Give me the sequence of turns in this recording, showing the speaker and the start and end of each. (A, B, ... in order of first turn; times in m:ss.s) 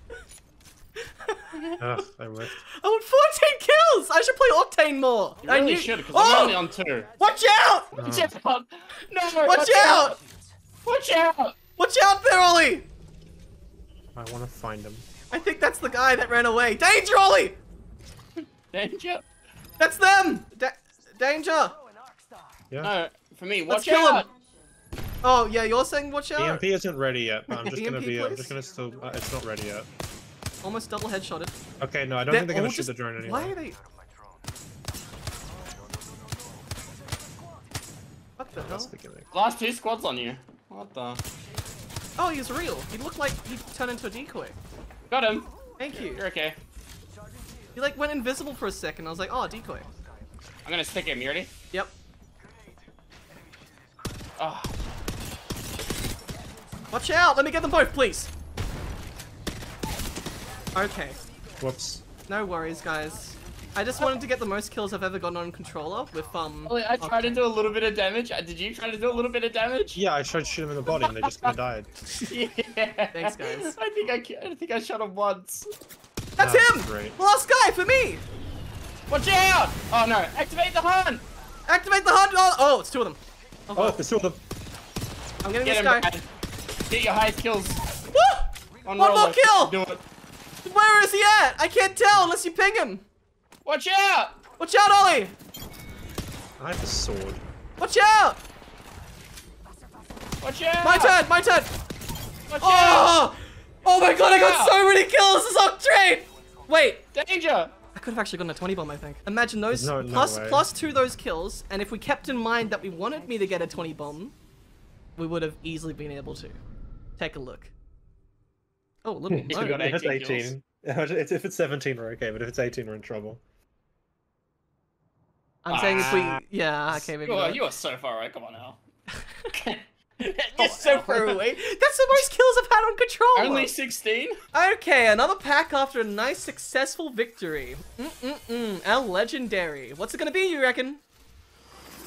0:01.0-0:01.5 A
0:01.8-0:02.6 B
0:02.6-0:06.6 A
0:05.4-0:07.1 C
0:07.2-0:07.9 A
0:07.9-0:10.1 C
0:08.0-0:08.3 B
0:09.4-0:10.2 A
0:10.8-0:11.6 C
0:11.8-0:12.9 A
0:14.2-0:15.0 B
0:15.3-0:17.6 A
0:18.7-0:19.2 C
0:19.8-0:21.8 A
0:22.8-0:24.3 C
0:23.7-0:24.2 A
0:25.2-0:26.6 A
0:26.4-0:29.9 B
0:27.5-0:28.5 A
0:30.6-0:31.5 A
0:31.8-0:33.6 B
0:32.3-0:33.8 A
0:38.4-0:38.9 A
0:38.5-0:39.3 B
0:39.3-0:41.2 C
0:42.2-0:44.6 A
0:45.1-0:46.6 C
0:45.8-0:46.2 A
0:47.7-0:49.9 A
0:50.6-0:51.5 C
0:54.4-0:54.7 C
0:56.9-0:58.3 A
1:00.7-1:01.2 A
1:01.6-1:02.0 B
1:02.3-1:07.3 A
1:06.7-1:10.0 C
1:09.9-1:11.9 B
1:10.9-1:11.5 C
1:12.2-1:15.7 C
1:13.1-1:13.7 A
1:16.4-1:18.2 A
1:16.4-1:17.2 B
1:19.1-1:21.2 C
1:21.7-1:24.0 A
1:23.7-1:24.4 B
1:25.4-1:26.1 A
1:25.6-1:26.2 C
1:26.9-1:27.8 C
1:28.1-1:29.7 A
1:28.8-1:30.0 C
1:30.6-1:33.0 A
1:33.6-1:34.4 C
1:34.6-1:35.3 A
1:36.6-1:37.4 B
1:37.8-1:38.4 A
1:40.4-1:41.2 C
1:40.8-1:41.7 A
1:42.5-1:43.2 C
1:42.6-1:47.0 A
1:44.2-1:44.8 C
1:47.1-1:47.7 C
1:47.9-1:54.3 A
1:49.7-1:50.6 B
1:55.2-1:56.6 A
1:57.2-1:57.7 A
1:59.0-1:59.8 A
1:59.3-2:03.4 B
1:59.5-2:00.5 C
2:05.6-2:07.6 A
2:05.7-2:06.4 C
2:07.0-2:08.8 C
2:09.1-2:09.5 A
2:09.5-2:11.4 C
2:10.6-2:13.7 A
2:13.3-2:14.4 C
2:14.5-2:21.0 A